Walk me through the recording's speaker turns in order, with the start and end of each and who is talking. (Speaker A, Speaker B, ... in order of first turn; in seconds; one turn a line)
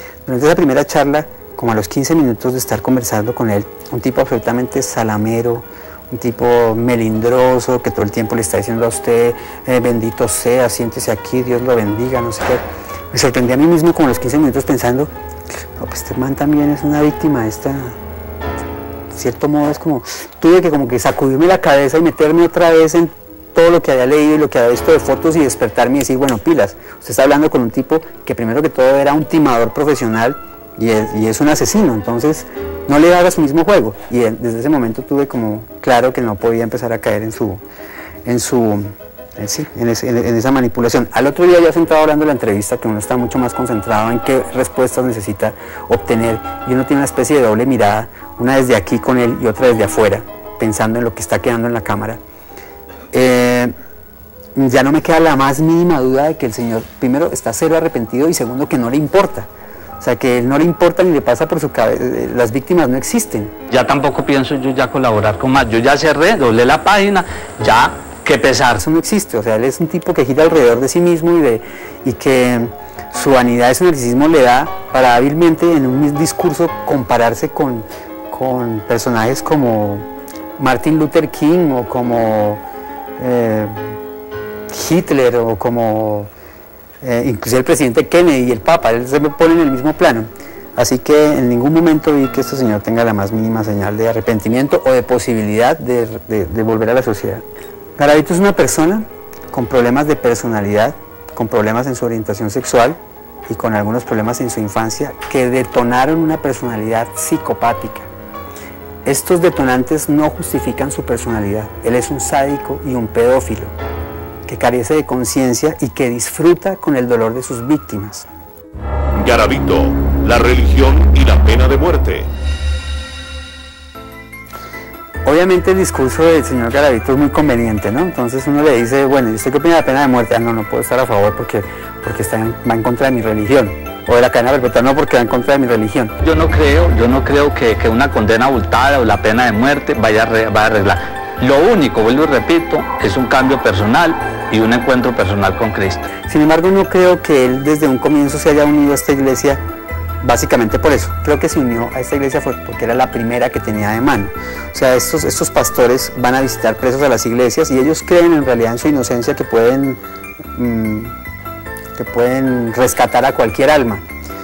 Speaker A: 0.3-15.1
Speaker A: 15.8-18.0
Speaker A: 19.1-37.6
Speaker A: 38.2-52.2
Speaker A: 53.1-53.7
Speaker A: 54.5-59.5
Speaker A: 60.0-63.5
Speaker B: 63.7-68.8
Speaker A: 68.8-80.1
Speaker A: 80.6-82.6
Speaker A: 83.2-84.0
Speaker A: 84.7-86.3
Speaker A: 87.0-97.4
Speaker A: 98.0-108.1
Speaker A: 109.0-113.8
Speaker A: 114.5-118.3
Speaker C: 119.2-122.3
Speaker A: 125.2-136.2
Speaker B: 136.2-146.1
Speaker A: 146.3-149.6
Speaker A: 150.2-160.0
Speaker A: 160.6-161.2
Speaker A: 162.0-164.1